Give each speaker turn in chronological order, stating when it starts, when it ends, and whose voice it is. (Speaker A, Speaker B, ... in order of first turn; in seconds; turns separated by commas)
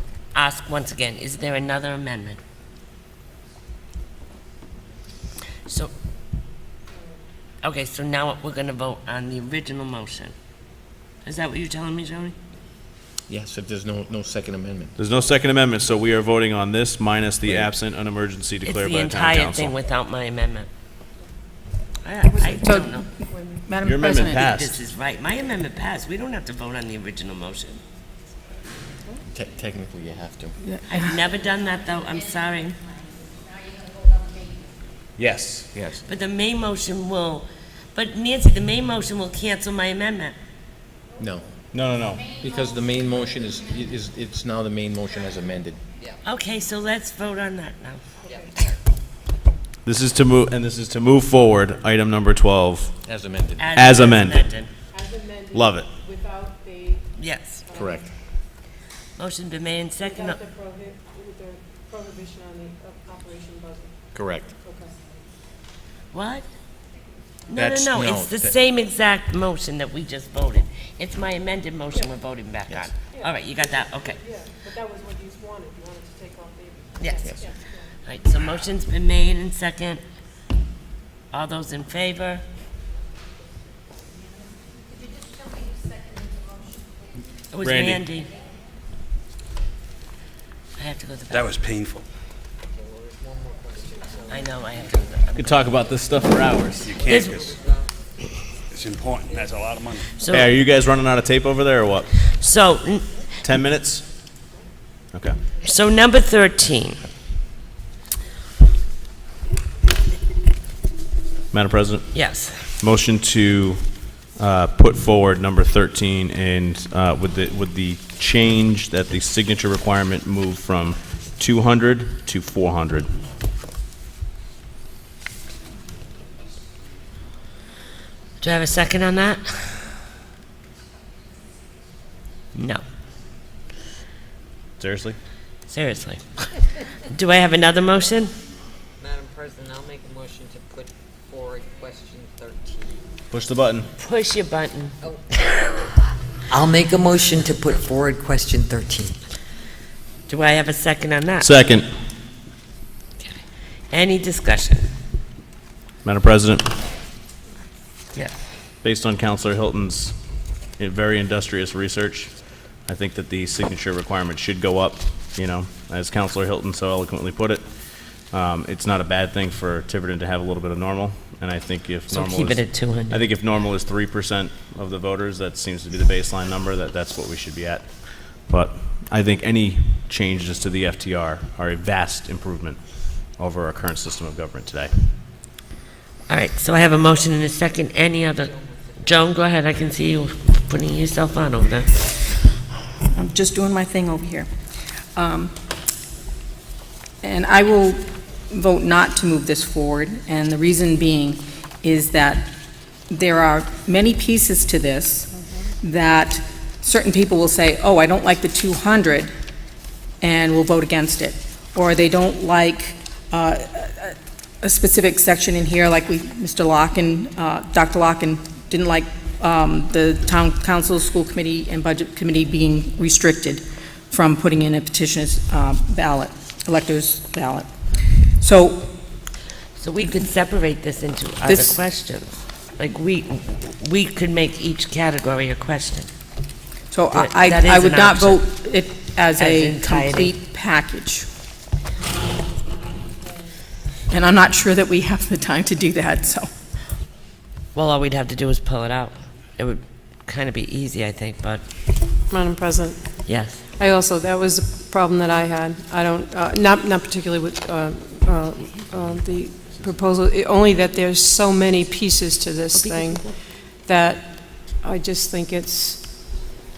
Speaker A: 0.3-2.4, Speaker A: 7.6-10.3, Speaker A: 11.2-12.3, Speaker B: 13.3-15.0, Speaker C: 15.0-19.7, Speaker B: 17.4-17.8, Speaker A: 18.6-20.7, Speaker A: 22.1-23.1, Speaker D: 22.4-24.5, Speaker C: 23.8-24.8, Speaker A: 24.1-27.8, Speaker B: 29.3-30.6, Speaker D: 30.6-31.1, Speaker A: 30.9-32.8, Speaker C: 35.2-35.7, Speaker B: 35.8-36.0, Speaker A: 36.1-40.4, Speaker B: 41.2-41.5, Speaker C: 41.7-42.3, Speaker B: 42.3-45.8, Speaker A: 46.2-48.0, Speaker C: 49.8-53.0, Speaker B: 53.1-54.0, Speaker A: 53.6-54.7, Speaker C: 53.8-54.5, Speaker C: 55.5-55.9, Speaker A: 57.2-57.6, Speaker B: 57.7-58.1, Speaker A: 59.2-60.4, Speaker B: 64.2-64.5, Speaker A: 66.1-66.5, Speaker A: 67.5-74.2, Speaker B: 67.5-68.6, Speaker B: 72.7-72.9, Speaker A: 77.0-77.3, Speaker B: 77.2-77.5, Speaker A: 78.0-80.0, Speaker A: 81.3-82.4, Speaker A: 87.5-88.3, Speaker C: 87.6-88.0, Speaker A: 90.8-91.5, Speaker E: 91.3-92.1, Speaker F: 93.0-94.2, Speaker A: 94.3-95.7, Speaker C: 95.3-97.0, Speaker E: 97.0-97.3, Speaker A: 97.0-97.5, Speaker F: 97.2-97.8, Speaker E: 98.7-100.1, Speaker A: 100.2-100.5, Speaker C: 100.3-102.1, Speaker A: 102.3-103.2, Speaker C: 103.4-104.1, Speaker C: 105.1-105.4, Speaker A: 105.6-107.0, Speaker C: 111.5-112.2, Speaker A: 112.1-112.7, Speaker C: 112.8-123.1, Speaker A: 128.4-129.8, Speaker A: 132.6-132.8, Speaker C: 134.8-135.2, Speaker A: 135.7-136.5, Speaker A: 137.1-138.3, Speaker F: 139.1-140.8, Speaker F: 141.5-142.7, Speaker C: 143.3-143.9, Speaker A: 144.0-145.0, Speaker G: 146.5-149.2, Speaker A: 150.3-151.5, Speaker C: 151.4-151.8, Speaker A: 153.9-154.9, Speaker C: 156.1-156.7, Speaker C: 158.8-160.2, Speaker C: 160.8-185.1, Speaker A: 172.1-173.2, Speaker A: 186.3-192.2, Speaker D: 193.1-194.5, Speaker D: 195.2-195.6, Speaker D: 197.2-202.6, Speaker D: 203.1-209.3, Speaker D: 210.2-228.9, Speaker A: 229.8-236.1, Speaker D: 231.4-231.8, Speaker D: 236.9-241.3, Speaker A: 237.1-238.4, Speaker A: 239.4-240.3, Speaker D: 244.1-246.5, Speaker A: 247.8-251.7, Speaker H: 252.3-266.0, Speaker A: 253.3-253.6, Speaker A: 262.7-263.4